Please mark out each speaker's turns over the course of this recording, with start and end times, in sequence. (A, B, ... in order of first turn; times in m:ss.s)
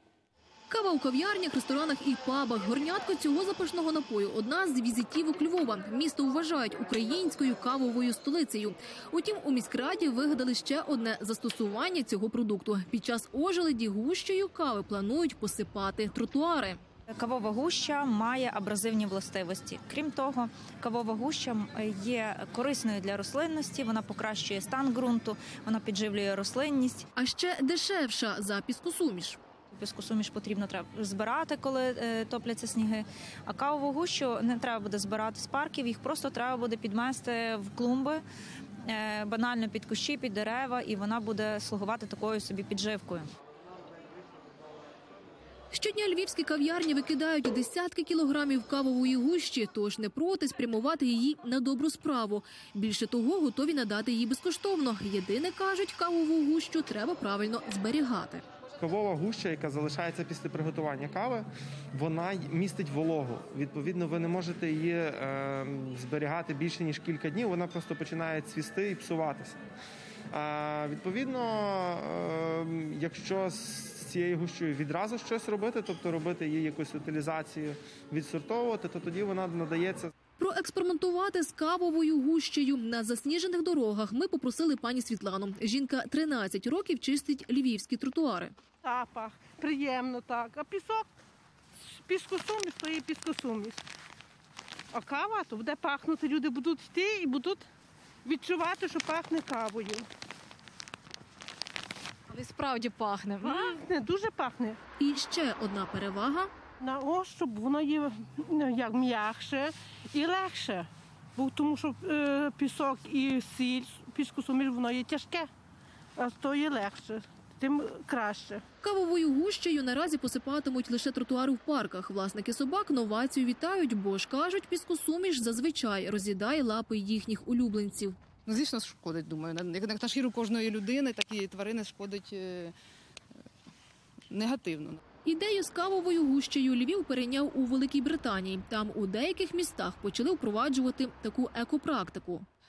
0:00.7-0:16.8 A
0:17.2-0:27.0 B
0:27.2-0:29.4 A
0:29.7-0:38.2 B
0:38.9-0:43.3 B
0:45.7-0:58.4 A
0:58.8-1:09.6 C
1:10.3-1:20.1 C
1:20.4-1:28.5 A
1:28.8-1:31.1 D
1:31.9-1:33.8 D
1:34.9-1:37.7 D
1:38.2-1:40.0 D
1:42.3-1:43.8 A
1:43.4-1:44.8 D
1:45.0-1:46.5 A
1:46.8-1:55.5 D
1:56.2-1:58.6 D
1:58.8-2:08.2 A
2:08.5-2:12.8 E
2:14.3-2:15.0 E
2:15.2-2:22.5 A